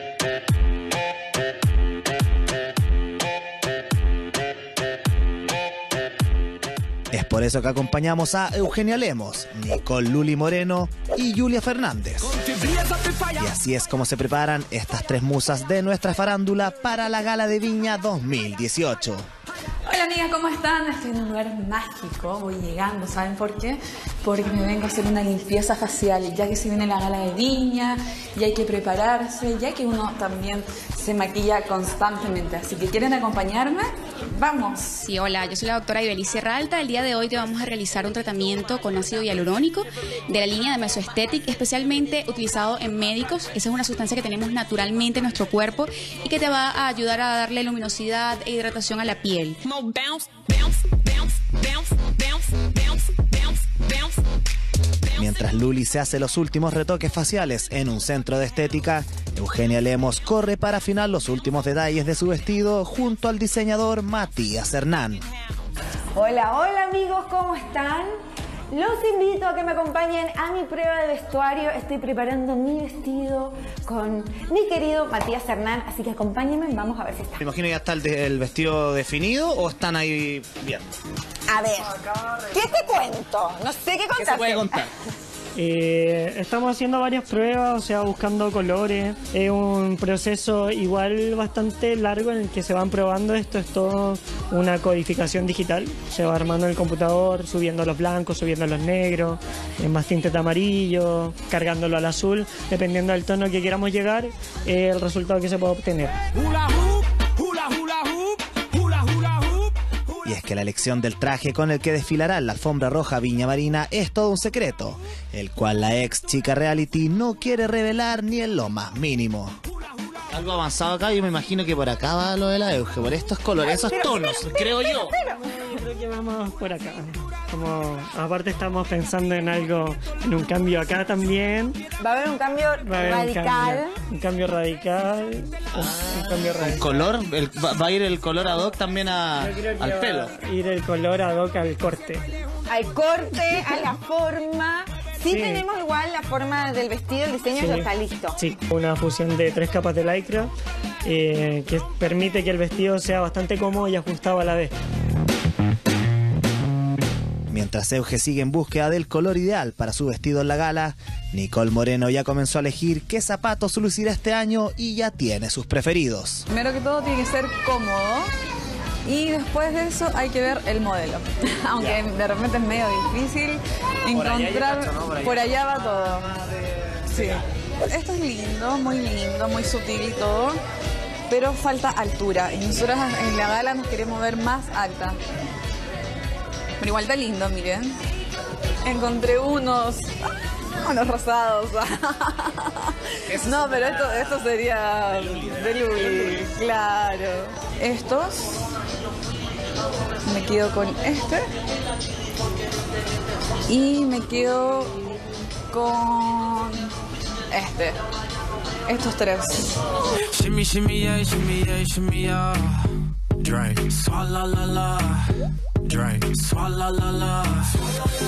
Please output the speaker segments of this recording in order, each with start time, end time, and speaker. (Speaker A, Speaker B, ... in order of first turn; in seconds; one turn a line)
Speaker A: 7.1-12.3
Speaker A: 13.3-19.3
Speaker B: 19.8-35.0
Speaker C: 35.0-49.7
Speaker A: 55.1-65.2
Speaker D: 66.1-68.1
Speaker D: 68.7-77.4
Speaker A: 77.4-80.9
Speaker D: 81.5-84.9
Speaker A: 84.1-84.9
Speaker E: 85.5-106.1
Speaker A: 110.2-119.6
Speaker A: 120.3-125.1
Speaker D: 123.6-125.4
Speaker E: 125.5-131.8
Speaker D: 132.0-133.9
Speaker E: 132.8-137.1
Speaker A: 135.7-140.3
Speaker E: 139.4-142.2
Speaker D: 142.7-148.4
Speaker E: 145.3-145.6
Speaker E: 147.6-150.5
Speaker E: 151.0-154.7
Speaker A: 157.5-166.4
Speaker B: 166.5-168.3
Speaker B: 169.0-176.4
Speaker A: 174.1-175.5
Speaker B: 177.1-180.6
Speaker B: 181.3-185.2
Speaker B: 186.8-188.0
Speaker B: 188.8-190.1
Speaker B: 190.7-198.5
Speaker A: 193.3-194.3
Speaker A: 195.4-196.3
Speaker B: 200.2-201.4
Speaker B: 203.7-205.0
Speaker B: 205.7-206.9
Speaker B: 207.5-208.0
Speaker B: 208.8-209.7
Speaker F: 210.3-212.8
Speaker F: 213.4-215.2
Speaker F: 215.8-217.7